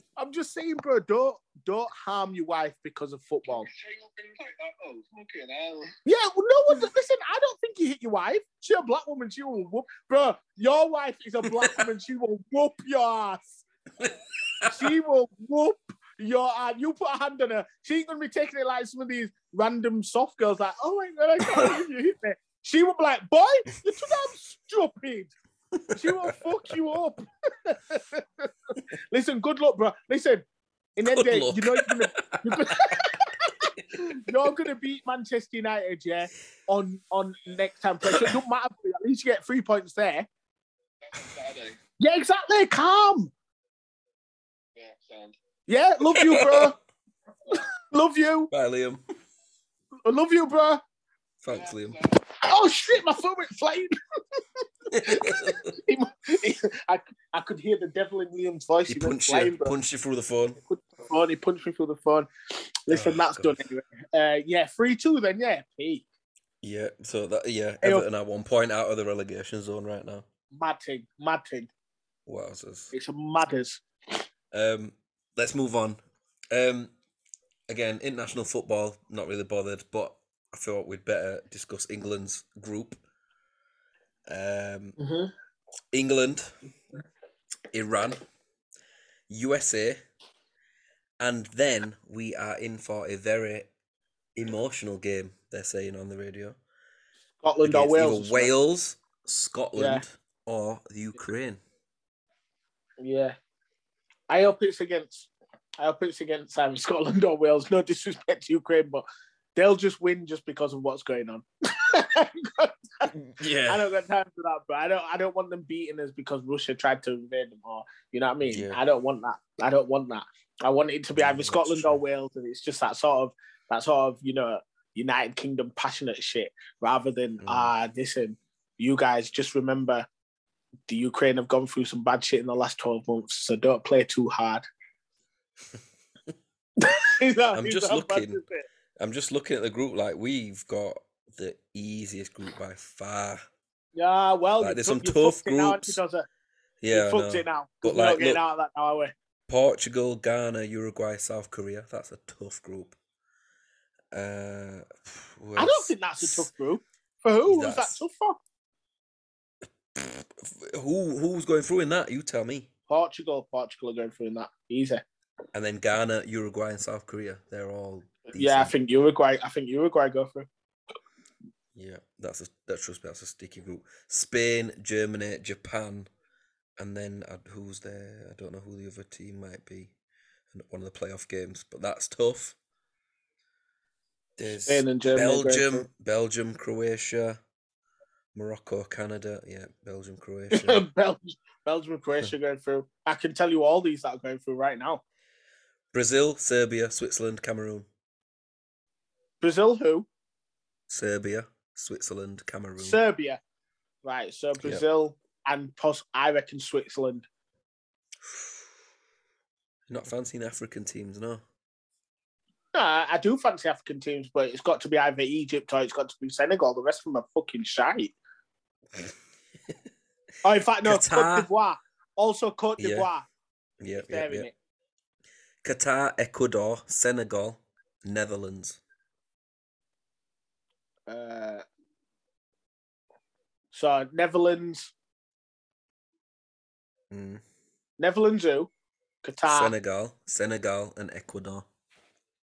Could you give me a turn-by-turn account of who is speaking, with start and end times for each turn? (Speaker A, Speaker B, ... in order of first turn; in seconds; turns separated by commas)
Speaker A: 0.2-3.7, Speaker B: 3.6-6.0, Speaker A: 6.0-13.6, Speaker C: 11.5-11.8, Speaker C: 14.0-14.9, Speaker A: 14.7-25.3, Speaker C: 21.4-21.8, Speaker C: 25.8-26.3, Speaker A: 25.9-30.4, Speaker A: 31.0-40.3, Speaker C: 31.0-33.1, Speaker B: 41.1-41.8, Speaker A: 42.0-43.3, Speaker B: 44.8-45.4, Speaker A: 45.7-46.7, Speaker C: 46.0-46.7, Speaker A: 47.5-48.5, Speaker C: 48.5-49.0, Speaker A: 50.0-50.8, Speaker C: 51.4-52.0, Speaker B: 51.5-52.1, Speaker A: 52.4-59.7, Speaker C: 54.9-55.7, Speaker C: 58.9-60.6, Speaker A: 60.6-66.0, Speaker C: 62.9-63.6, Speaker C: 66.6-70.2, Speaker A: 70.5-71.7, Speaker C: 72.3-72.9, Speaker A: 72.9-73.8, Speaker C: 74.5-76.0, Speaker C: 76.5-76.9, Speaker C: 77.7-83.0, Speaker C: 84.3-85.0, Speaker A: 85.0-85.3, Speaker C: 85.9-86.5, Speaker C: 87.7-88.2, Speaker C: 89.3-90.0, Speaker C: 91.2-93.7, Speaker C: 94.3-96.6, Speaker A: 97.4-98.5, Speaker C: 97.6-101.6, Speaker A: 99.8-100.0, Speaker A: 103.0-103.3, Speaker A: 104.3-109.0, Speaker A: 109.5-113.1, Speaker C: 113.1-113.9, Speaker A: 113.7-130.1, Speaker C: 118.5-118.8, Speaker C: 121.2-122.0, Speaker C: 127.4-127.7, Speaker A: 130.9-134.7, Speaker A: 136.8-138.6, Speaker C: 137.5-138.4, Speaker C: 139.0-143.4, Speaker A: 143.9-146.2, Speaker C: 144.6-146.0, Speaker C: 146.8-148.4, Speaker A: 146.9-149.1, Speaker C: 149.5-153.0, Speaker C: 154.1-156.5, Speaker A: 155.6-158.4, Speaker C: 157.5-158.0, Speaker C: 159.9-162.7, Speaker A: 162.9-165.0, Speaker C: 165.5-168.7, Speaker A: 168.3-170.5, Speaker C: 171.7-176.1, Speaker C: 176.8-179.9, Speaker C: 180.5-182.6, Speaker C: 184.4-187.4, Speaker A: 184.4-185.9, Speaker C: 188.3-190.8, Speaker A: 190.5-195.0, Speaker C: 195.9-197.9, Speaker A: 199.4-200.1, Speaker C: 200.9-203.0, Speaker A: 202.8-203.4, Speaker A: 204.0-207.3, Speaker C: 209.9-211.4, Speaker A: 212.7-218.1, Speaker A: 220.4-223.3, Speaker C: 220.8-221.5, Speaker C: 222.8-223.1, Speaker C: 223.8-224.5, Speaker A: 224.0-224.5, Speaker C: 225.6-228.8, Speaker A: 231.1-231.6, Speaker A: 233.7-234.9, Speaker C: 237.1-237.4, Speaker A: 238.0-238.7, Speaker A: 239.2-239.7, Speaker C: 239.5-241.7